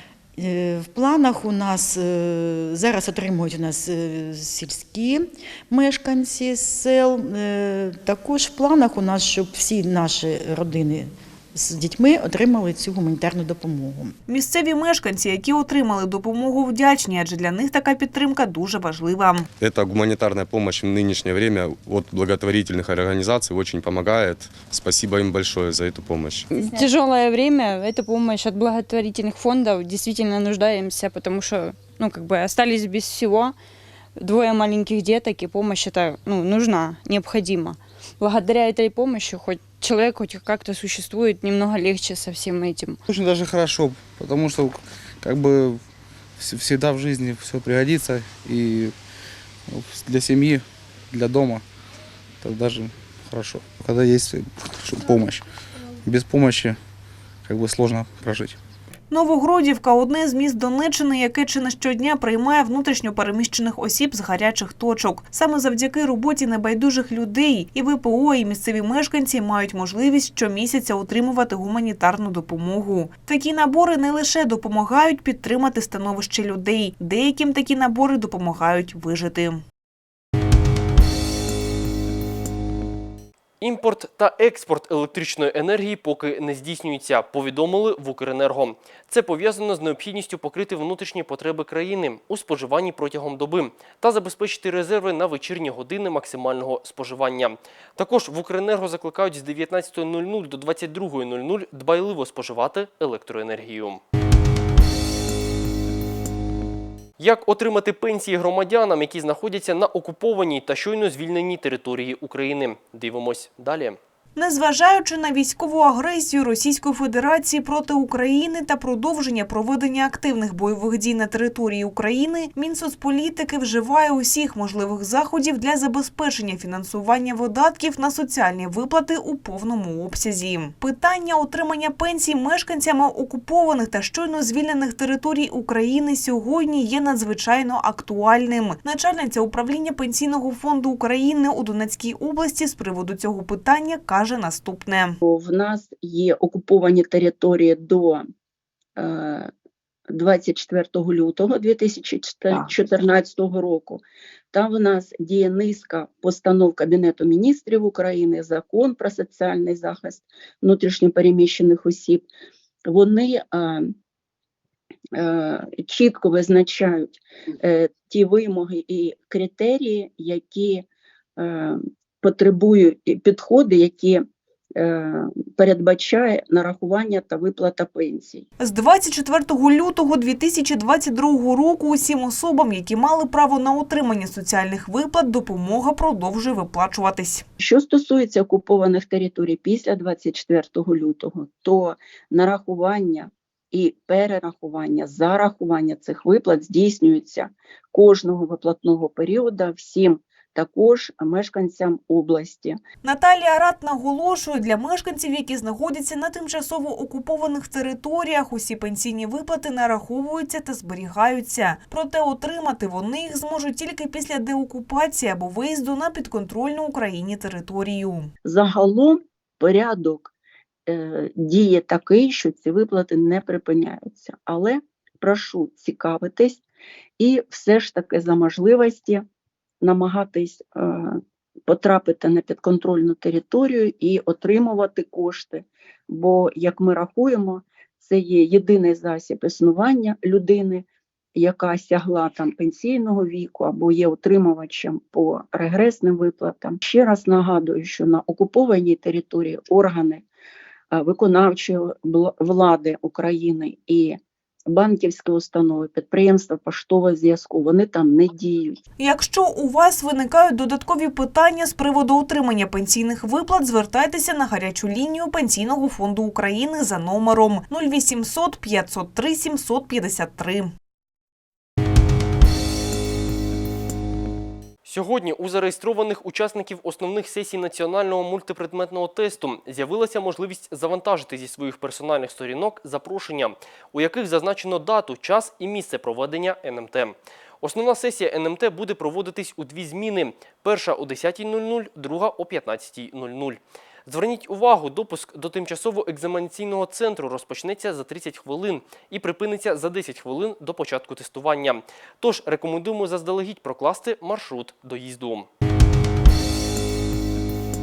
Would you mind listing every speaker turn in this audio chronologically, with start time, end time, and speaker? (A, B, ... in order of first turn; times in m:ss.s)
0:00.4-0:14.1 A
0:14.3-0:19.5 B
0:19.6-0:26.5 C
0:26.5-0:33.5 D
0:34.2-0:43.0 D
0:43.0-0:45.8 E
0:46.4-0:48.9 E
0:49.7-0:51.6 E
0:52.4-0:55.4 E
0:56.0-0:56.8 E
0:57.4-0:58.6 E
0:59.1-1:19.6 B
1:23.6-1:44.0 F
1:47.2-1:54.0 F
1:54.4-2:25.2 B
2:25.2-2:28.2 G
2:29.0-2:29.5 G
2:30.1-2:42.2 G
2:42.9-2:43.9 G
2:45.1-2:50.8 G
2:51.4-2:54.2 G
2:54.8-2:58.4 G
2:58.6-3:07.4 B
3:07.6-3:22.8 G
3:23.0-3:38.3 B
3:38.4-3:40.3 G
3:40.9-3:46.6 G
3:47.2-3:49.2 G
3:49.8-4:00.8 G
4:01.4-4:10.2 G
4:10.9-4:18.8 G
4:19.0-4:30.7 B
4:34.8-5:05.5 F